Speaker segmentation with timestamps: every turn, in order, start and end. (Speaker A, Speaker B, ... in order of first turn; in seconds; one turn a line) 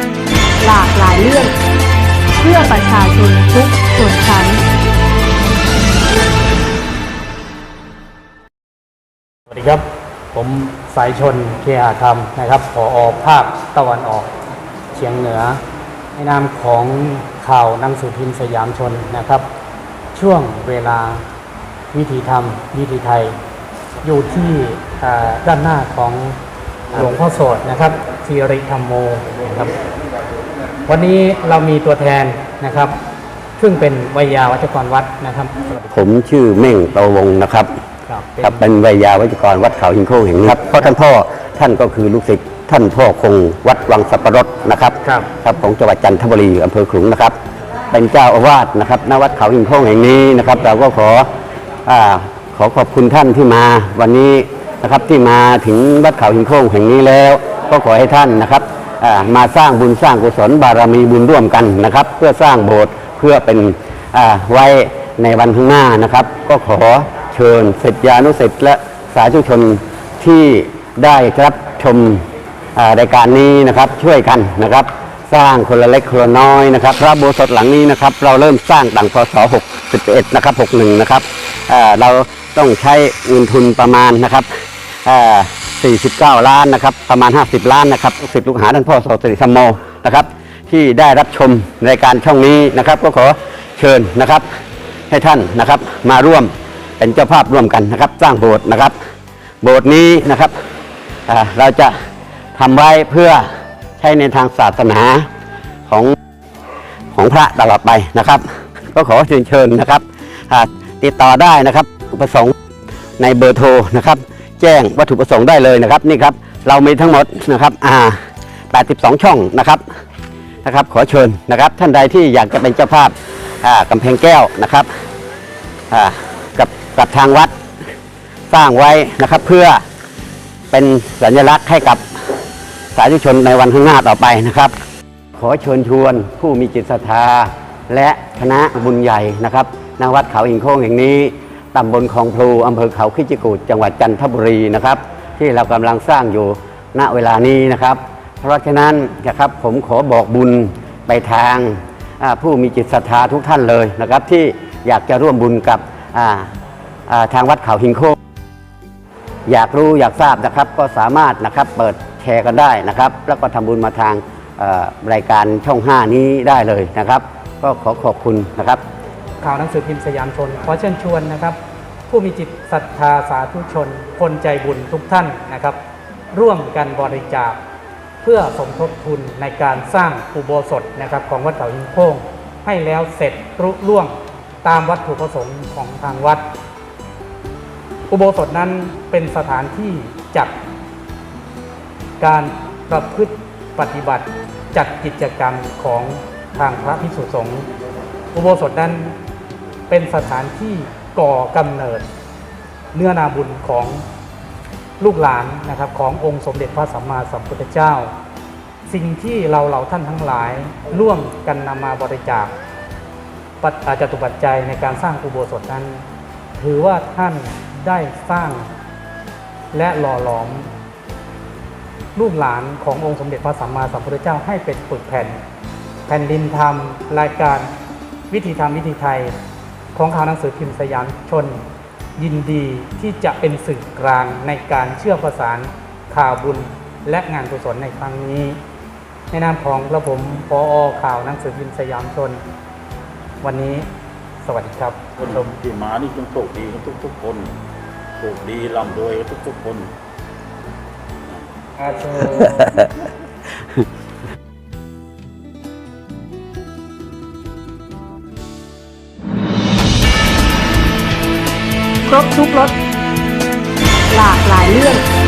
Speaker A: 0.6-1.5
Speaker A: 2.4-4.6
Speaker B: 9.5-14.3
Speaker B: 14.9-15.6
Speaker B: 16.1-19.5
Speaker B: 20.1-21.2
Speaker B: 21.9-23.4
Speaker B: 24.0-26.4
Speaker B: 26.9-29.8
Speaker B: 30.9-32.9
Speaker B: 33.6-36.1
Speaker C: 35.9-37.7
Speaker B: 38.1-38.6
Speaker C: 38.4-47.4
Speaker B: 45.0-45.3
Speaker C: 47.9-51.2
Speaker C: 51.9-84.5
Speaker C: 85.0-94.5
Speaker C: 95.1-98.9
Speaker C: 99.6-100.5
Speaker C: 101.3-101.9
Speaker C: 102.5-103.5
Speaker C: 104.0-105.3
Speaker C: 105.9-106.1
Speaker C: 107.1-112.5
Speaker C: 113.2-118.2
Speaker C: 118.7-119.8
Speaker C: 120.6-124.9
Speaker C: 125.9-127.5
Speaker C: 128.5-129.8
Speaker C: 130.7-132.0
Speaker C: 132.9-134.7
Speaker C: 135.4-156.5
Speaker C: 157.1-158.2
Speaker C: 159.5-168.8
Speaker B: 169.4-171.6
Speaker B: 172.1-175.8
Speaker B: 176.3-177.6
Speaker B: 178.2-186.5
Speaker B: 188.1-190.5
Speaker B: 192.2-197.7
Speaker B: 198.3-199.2
Speaker B: 199.9-202.1
Speaker B: 202.9-204.0
Speaker B: 205.0-208.1
Speaker B: 208.8-212.5
Speaker B: 213.6-216.0
Speaker B: 216.6-218.7
Speaker B: 219.7-220.7
Speaker B: 222.1-225.4
Speaker B: 226.1-227.7
Speaker B: 228.3-229.3
Speaker B: 229.9-231.6
Speaker B: 232.2-238.6
Speaker B: 239.3-242.4
Speaker B: 243.4-243.9
Speaker B: 244.4-245.5
Speaker D: 245.2-247.5
Speaker D: 248.2-249.9
Speaker B: 251.8-252.8
Speaker A: 262.1-262.8
Speaker A: 264.1-265.0